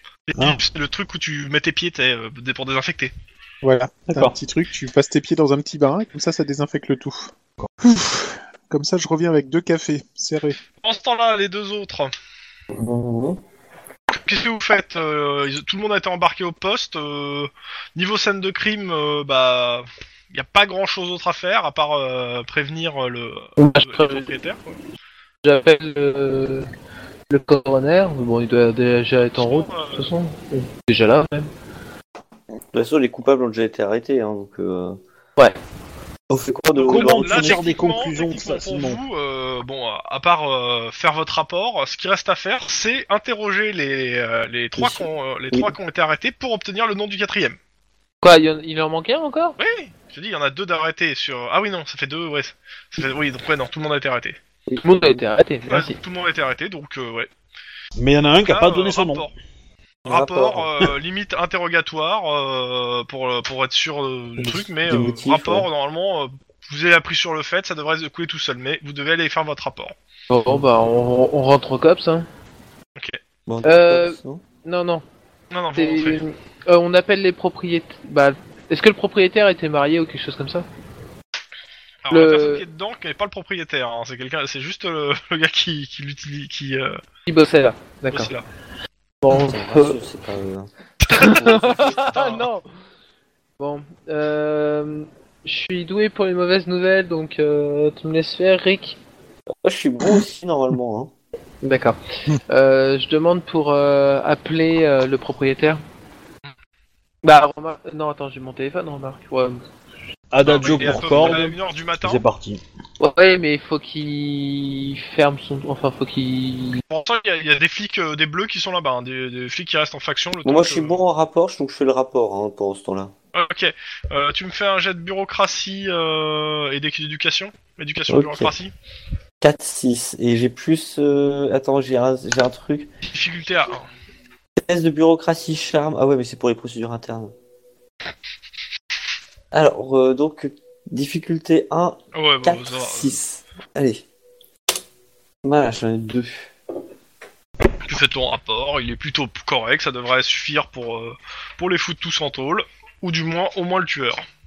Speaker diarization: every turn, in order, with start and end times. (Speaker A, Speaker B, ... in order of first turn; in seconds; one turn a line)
Speaker A: 0.3-3.1
Speaker B: 3.6-7.3
Speaker C: 4.1-4.3
Speaker B: 7.8-10.6
Speaker A: 10.8-12.1
Speaker D: 12.7-13.4
Speaker A: 14.1-24.8
Speaker E: 23.6-24.3
Speaker E: 25.4-26.7
Speaker E: 27.3-31.5
Speaker A: 29.4-30.1
Speaker D: 32.7-35.0
Speaker D: 36.3-37.7
Speaker C: 36.8-39.0
Speaker A: 36.8-47.6
Speaker D: 44.8-45.7
Speaker E: 48.2-49.6
Speaker A: 49.6-54.4
Speaker D: 54.7-55.2
Speaker E: 54.8-56.0
Speaker A: 55.7-57.3
Speaker C: 58.0-59.3
Speaker A: 58.4-59.3
Speaker D: 60.0-60.7
Speaker A: 60.1-70.0
Speaker D: 64.4-65.7
Speaker E: 70.3-72.3
Speaker D: 73.5-74.4
Speaker E: 73.6-75.0
Speaker A: 75.5-76.2
Speaker E: 75.8-80.7
Speaker A: 82.0-87.0
Speaker E: 82.1-82.6
Speaker E: 87.3-88.3
Speaker A: 88.1-88.5
Speaker E: 89.2-90.0
Speaker D: 89.3-92.0
Speaker A: 91.1-91.4
Speaker E: 91.1-92.7
Speaker A: 92.0-92.5
Speaker E: 93.6-99.0
Speaker D: 99.6-101.1
Speaker E: 101.6-105.8
Speaker E: 107.2-109.7
Speaker C: 110.3-112.6
Speaker A: 110.4-112.2
Speaker E: 113.0-116.8
Speaker A: 116.9-121.0
Speaker D: 120.5-123.1
Speaker A: 123.3-128.7
Speaker D: 128.1-128.5
Speaker D: 129.4-132.9
Speaker A: 133.1-133.9
Speaker D: 134.6-137.3
Speaker D: 139.5-144.1
Speaker A: 142.1-143.1
Speaker D: 145.4-146.5
Speaker A: 147.8-154.2